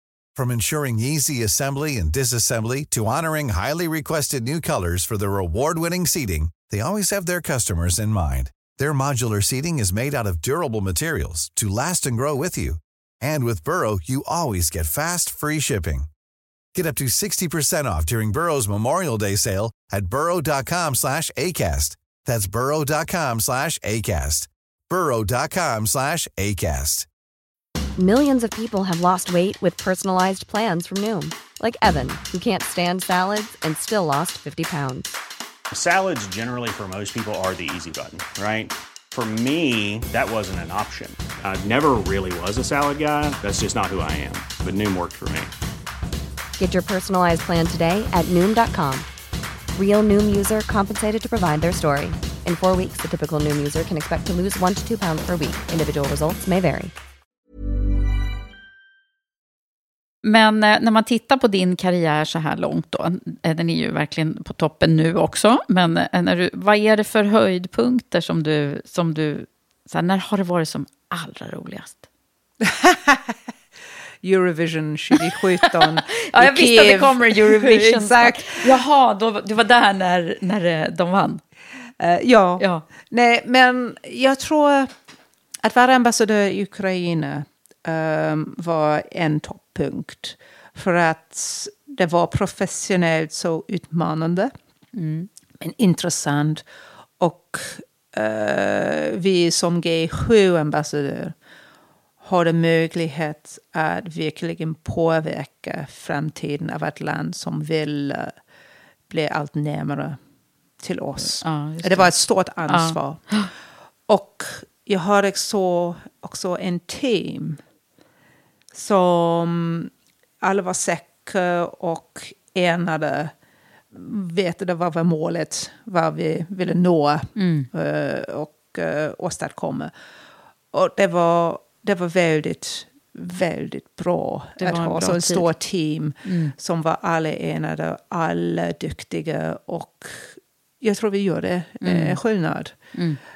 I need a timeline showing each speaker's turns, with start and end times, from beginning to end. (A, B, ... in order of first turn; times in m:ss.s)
0:00.3-0:16.1 A
0:16.7-0:27.0 A
0:28.0-0:35.1 B
0:35.7-0:45.5 C
0:46.6-0:49.1 B
0:49.7-0:56.9 B
1:00.2-1:12.0 D
1:12.6-1:13.3 E
1:14.2-1:18.6 E
1:15.7-1:21.4 D
1:22.0-1:24.9 E
1:22.6-1:22.8 D
1:25.6-1:34.5 E
1:34.9-1:35.3 D
1:35.6-1:36.6 E
1:37.2-1:41.3 E
1:42.2-1:48.3 E
1:49.1-1:50.2 E
1:50.8-1:53.3 E
1:51.4-1:52.1 D
1:52.7-1:53.5 D
1:54.1-1:57.6 E
1:58.7-1:59.9 E
2:00.4-2:03.3 E
2:03.9-2:09.9 E
2:07.4-2:07.7 D
2:10.7-2:22.7 E
2:14.6-2:15.5 D
2:16.2-2:16.5 D
2:21.8-2:22.2 D
2:22.9-2:23.2 D